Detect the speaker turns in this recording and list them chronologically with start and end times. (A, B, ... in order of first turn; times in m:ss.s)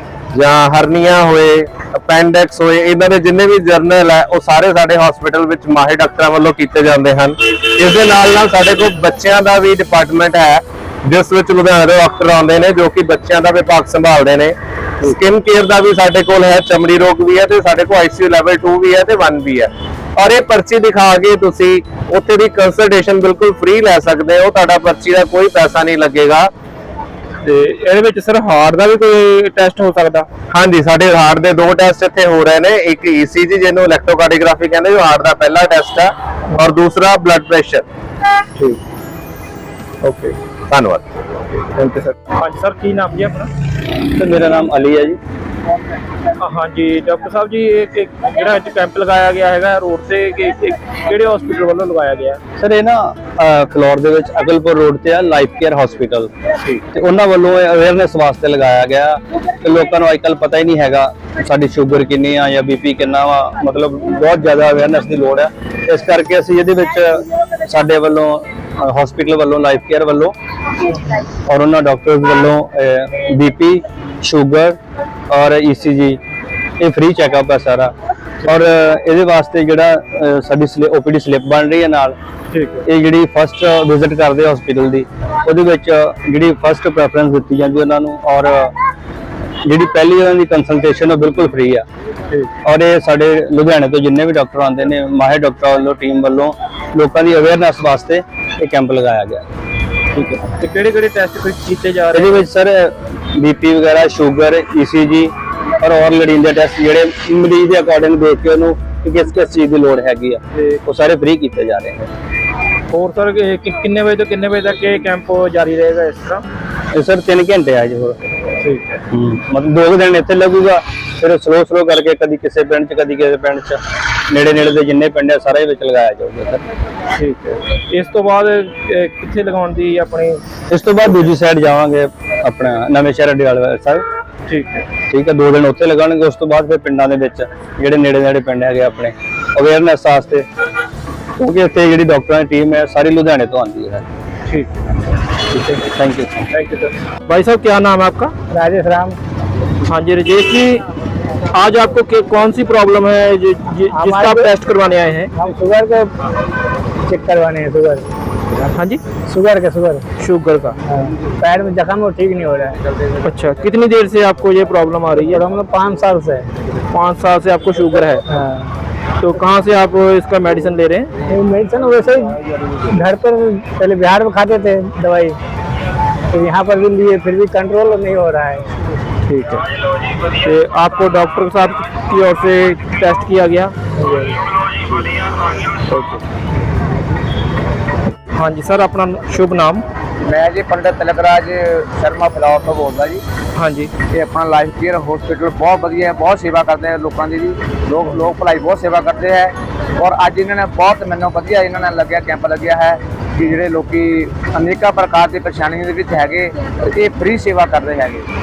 0:00.3-0:26.5 A
0:27.4-0:30.3 B
0:30.5-0:37.8 A
0:40.0-0:40.4 B
0:40.7-0:41.0 A
0:41.6-0:43.5 B
0:44.2-0:45.2 C
0:46.4-0:52.4 B
0:52.6-0:56.3 C
0:56.9-1:10.3 C
1:11.5-1:14.8 C
1:15.3-1:16.2 C
1:16.8-1:17.9 C
1:18.4-1:22.2 C
1:22.5-1:22.8 B
1:22.8-1:28.8 C
1:29.6-1:31.8 C
1:32.6-1:39.4 C
1:40.2-1:40.5 C
1:40.2-1:42.4 B
1:42.1-1:52.1 C
1:52.9-1:56.4 B
1:56.9-1:58.4 C
1:58.6-1:59.0 B
1:59.1-2:06.6 C
2:07.1-2:10.4 B
2:10.7-2:14.0 C
2:14.5-2:14.9 B
2:15.1-2:20.5 C
2:21.4-2:24.1 C
2:25.5-2:26.5 C
2:26.5-2:28.3 B
2:28.5-2:29.2 D
2:29.9-2:30.8 B
2:31.5-2:35.3 B
2:33.9-2:34.5 D
2:35.4-2:36.1 D
2:37.1-2:38.0 D
2:38.7-2:39.0 B
2:39.3-2:40.0 D
2:40.2-2:40.8 B
2:40.9-2:42.8 D
2:43.2-2:45.4 B
2:45.3-2:46.5 D
2:46.9-2:48.2 B
2:48.3-2:48.7 D
2:49.2-2:51.1 B
2:51.3-2:52.4 D
2:52.9-2:55.4 D
2:56.3-2:58.6 D
2:59.3-2:59.6 B
3:00.4-3:03.7 B
3:04.0-3:04.3 D
3:05.9-3:06.2 B
3:08.3-3:09.8 B
3:10.2-3:13.2 E
3:13.6-3:13.9 B
3:14.1-3:28.3 E